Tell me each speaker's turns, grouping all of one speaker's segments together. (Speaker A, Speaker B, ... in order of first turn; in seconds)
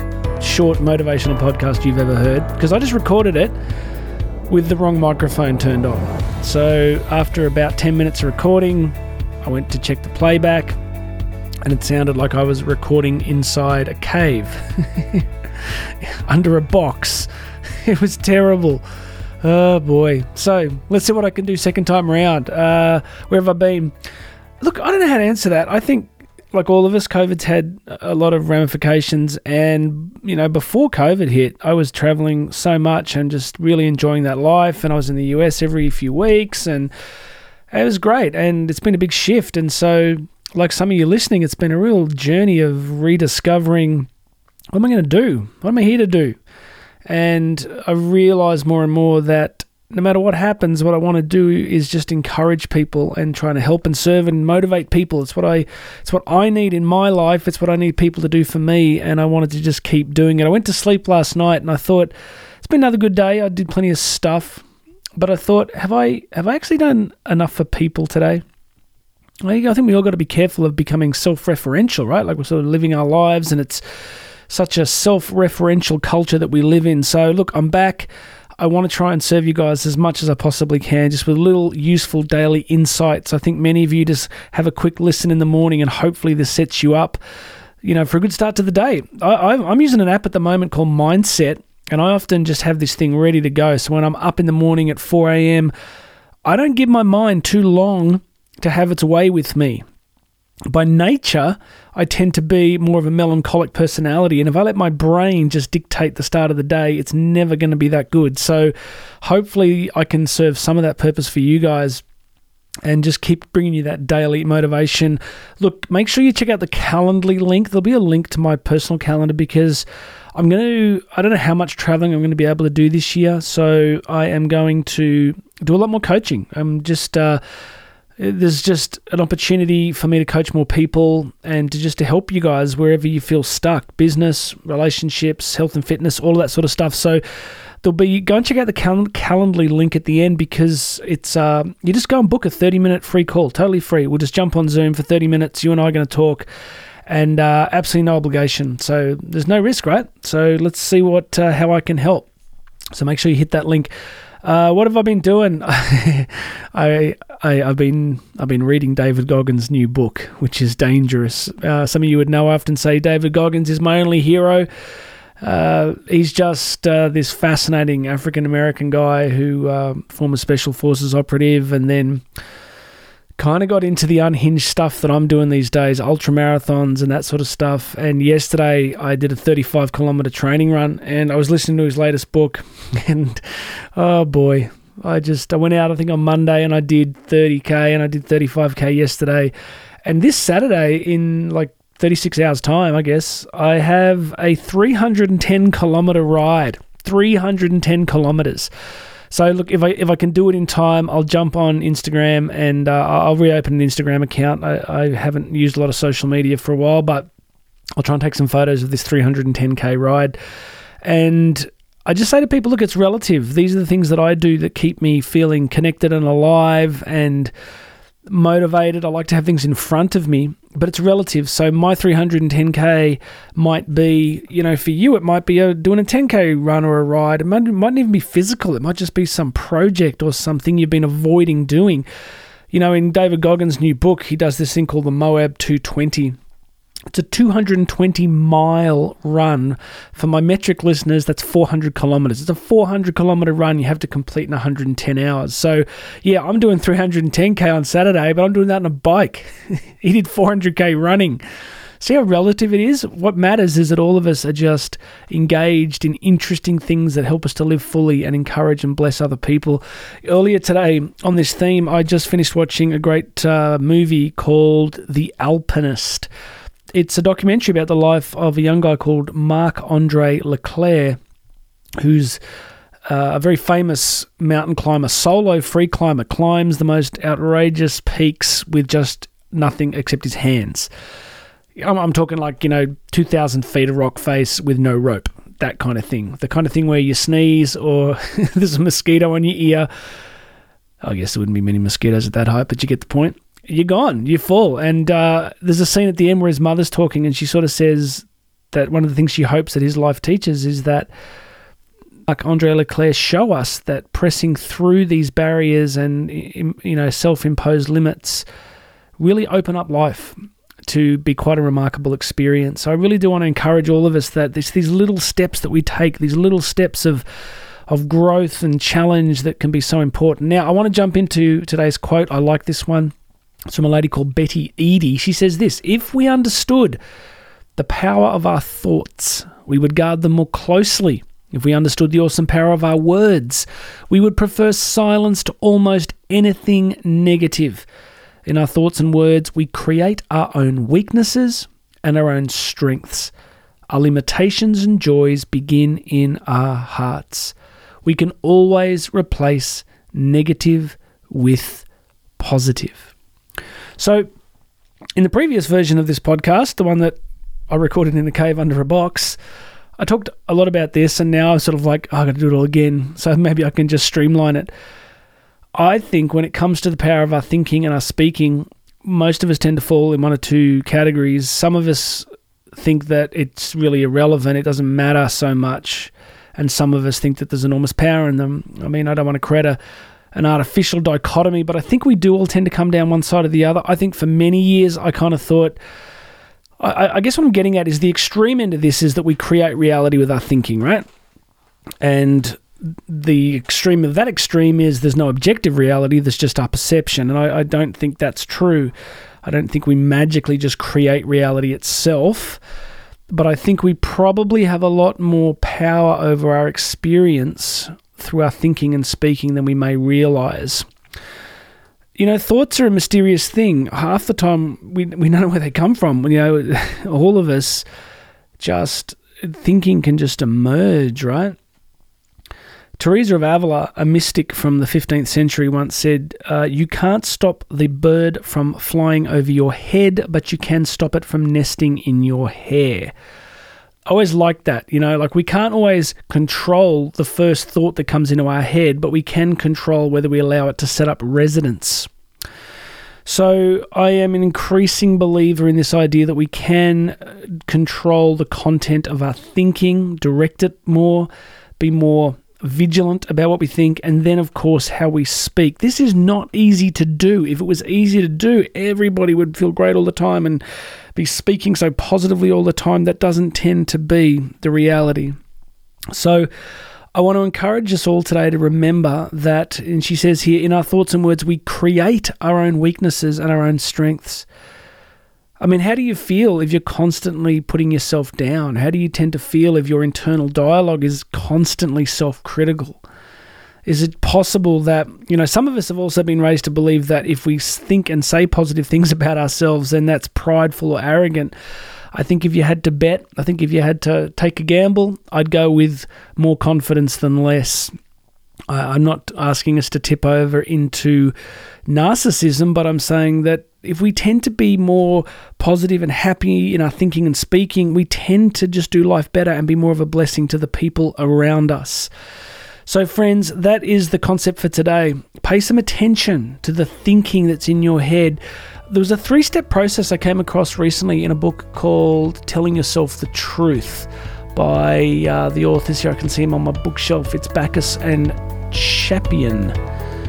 Speaker A: 0.4-3.5, 4.5-10.8, 11.7-18.8, 19.4-23.9, 24.6-36.9, 37.7-44.1, 44.7-46.4, 47.1-64.6, 65.2-68.4, 69.4-73.8, 74.5-87.2, 87.8-95.7, 96.5-99.8, 100.7-112.0, 112.8-127.4, 128.2-137.2, 137.8-146.5, 147.1-152.3, 152.9-153.9, 154.4-164.7, 165.4-172.2, 173.4-189.5, 190.1-198.7, 199.3-207.3, 208.0-210.4, 211.0-217.5, 218.3-232.1, 232.7-236.4, 237.1-251.4, 252.0-266.3, 266.9-271.2, 272.0-272.4, 273.1-280.9, 281.8-289.9, 291.0-301.1, 302.3-308.5, 309.2-317.2, 317.9-323.1, 323.7-327.0, 327.8-337.9, 338.5-343.3, 343.9-351.9, 352.4-353.1, 354.0-354.3, 355.2-357.2, 357.7-359.4, 360.0-364.7, 365.8-379.8, 380.3-385.8, 386.8-391.1, 392.0-398.9, 399.4-402.6, 403.3-410.9, 412.2-417.9, 418.6-421.6, 423.0-433.1, 434.1-442.1, 443.2-451.3, 451.8-460.6, 461.1-465.4, 466.1-466.5, 467.1-474.5, 475.6-483.0, 483.9-491.5, 492.1-497.9, 498.7-501.4, 501.9-512.1, 512.9-529.8